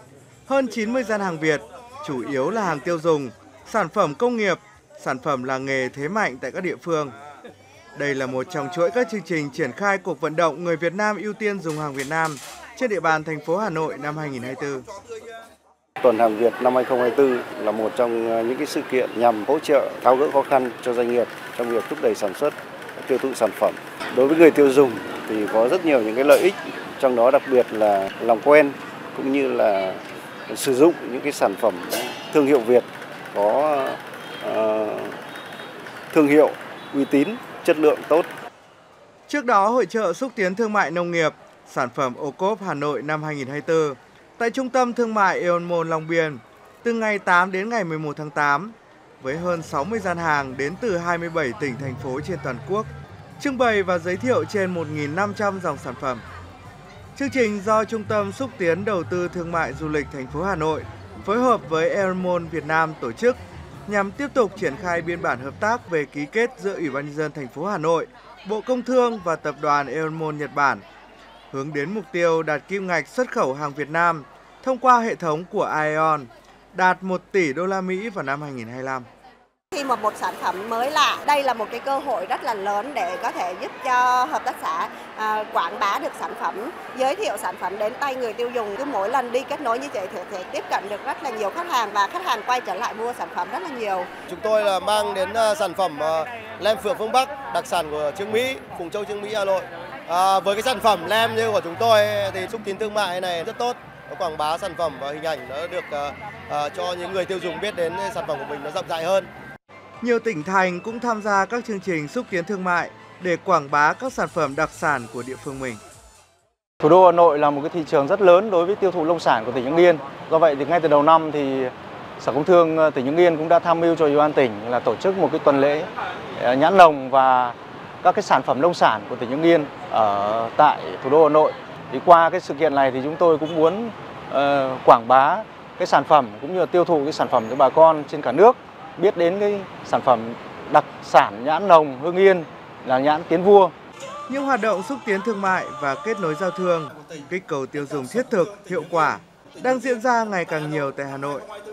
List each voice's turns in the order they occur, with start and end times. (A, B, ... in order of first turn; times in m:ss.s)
0:00.5-0:07.1 A
0:08.0-0:14.9 A
0:16.0-0:35.2 B
0:36.1-0:38.3 B
0:39.3-0:56.2 A
0:57.2-1:10.8 A
1:11.5-1:19.1 A
1:19.7-1:34.1 C
1:34.3-1:49.3 D
1:50.0-1:55.8 A
1:56.8-2:23.7 E
2:24.3-2:31.5 A